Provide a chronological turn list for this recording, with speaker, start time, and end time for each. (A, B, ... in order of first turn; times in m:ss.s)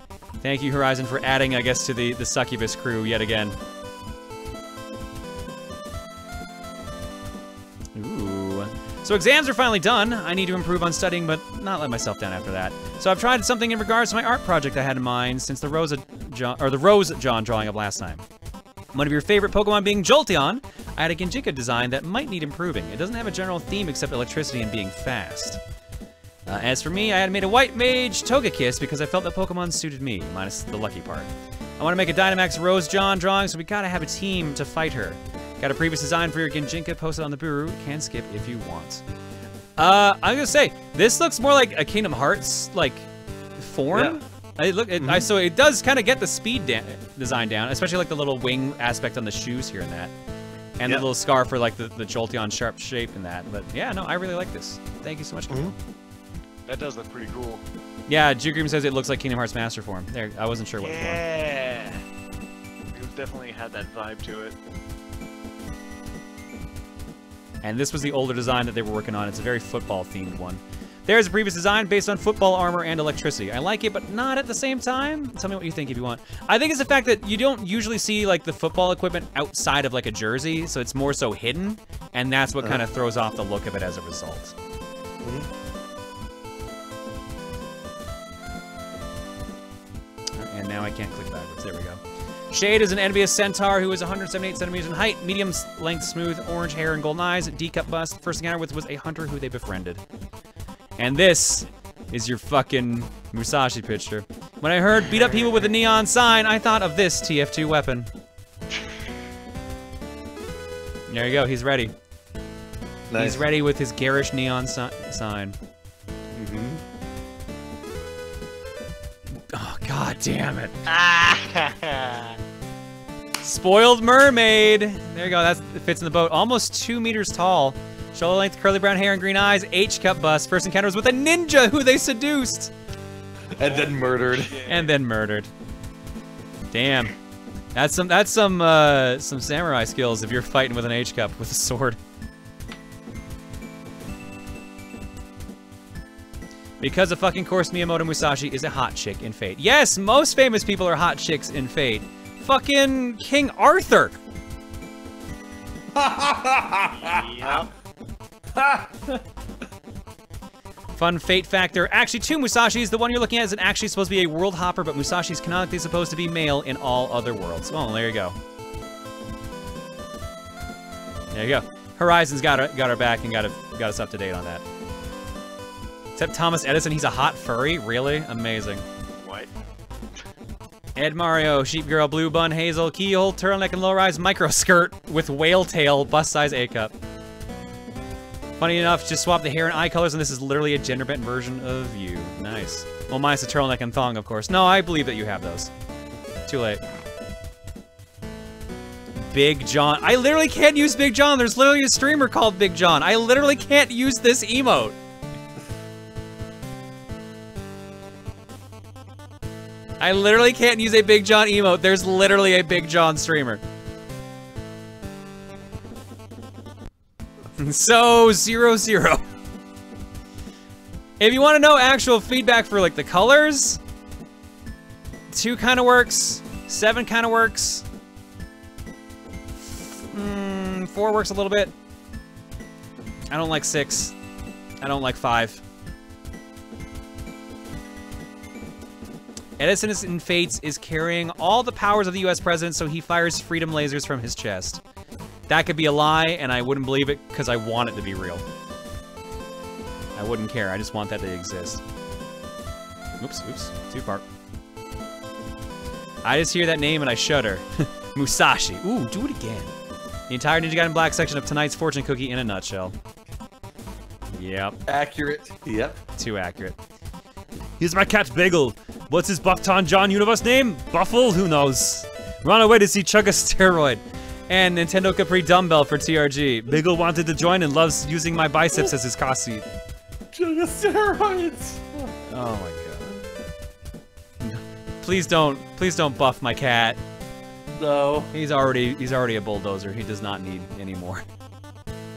0:00.4-0:03.6 A
0:07.9-0:18.2 A
0:18.9-0:25.6 A
0:26.4-0:39.0 A
0:39.8-0:50.1 A
0:43.9-0:44.2 B
0:45.0-0:45.3 B
0:50.8-0:55.8 A
0:55.5-0:55.7 B
0:56.7-0:57.6 C
0:58.1-1:01.2 A
1:00.8-1:02.0 C
1:02.9-1:04.6 C
1:07.6-1:24.5 A
1:25.2-1:25.5 B
1:30.4-1:40.0 A
1:41.0-1:48.1 A
1:51.1-1:51.9 A
1:53.1-1:53.5 B
1:53.2-1:55.6 A
1:56.3-1:56.8 B
1:59.5-2:00.8 A
2:00.9-2:02.4 C
2:03.4-2:12.7 A
2:13.5-2:14.6 B
2:13.6-2:14.9 C
2:14.7-2:15.5 A
2:16.7-2:17.1 A
2:17.7-2:22.0 A
2:26.8-2:34.2 A
2:35.9-2:37.7 B
2:36.9-2:37.7 C
2:38.6-2:39.2 B
2:41.0-2:48.4 A
2:51.3-2:54.6 A
2:56.2-2:58.8 A
2:59.2-2:59.5 C
3:01.0-3:06.9 A
3:08.6-3:15.7 A
3:16.5-3:16.8 A
3:19.3-3:25.0 A
3:30.0-3:33.6 A
3:37.6-3:39.2 A
3:41.2-3:43.8 A
3:45.3-3:47.8 A
3:49.6-3:51.7 A
3:53.3-3:54.1 A
3:54.8-3:55.6 A
3:59.6-4:04.8 A
4:05.5-4:08.4 A
4:10.1-4:11.8 A
4:13.2-4:14.2 A
4:16.2-4:19.7 A
4:20.3-4:23.0 A
4:24.3-4:24.8 A
4:24.9-4:26.0 B
4:26.2-4:26.8 A
4:27.8-4:39.7 A
4:40.3-4:42.1 B
4:42.3-4:43.1 A
4:44.4-4:47.0 A
4:47.8-4:48.3 B
4:48.3-4:51.2 A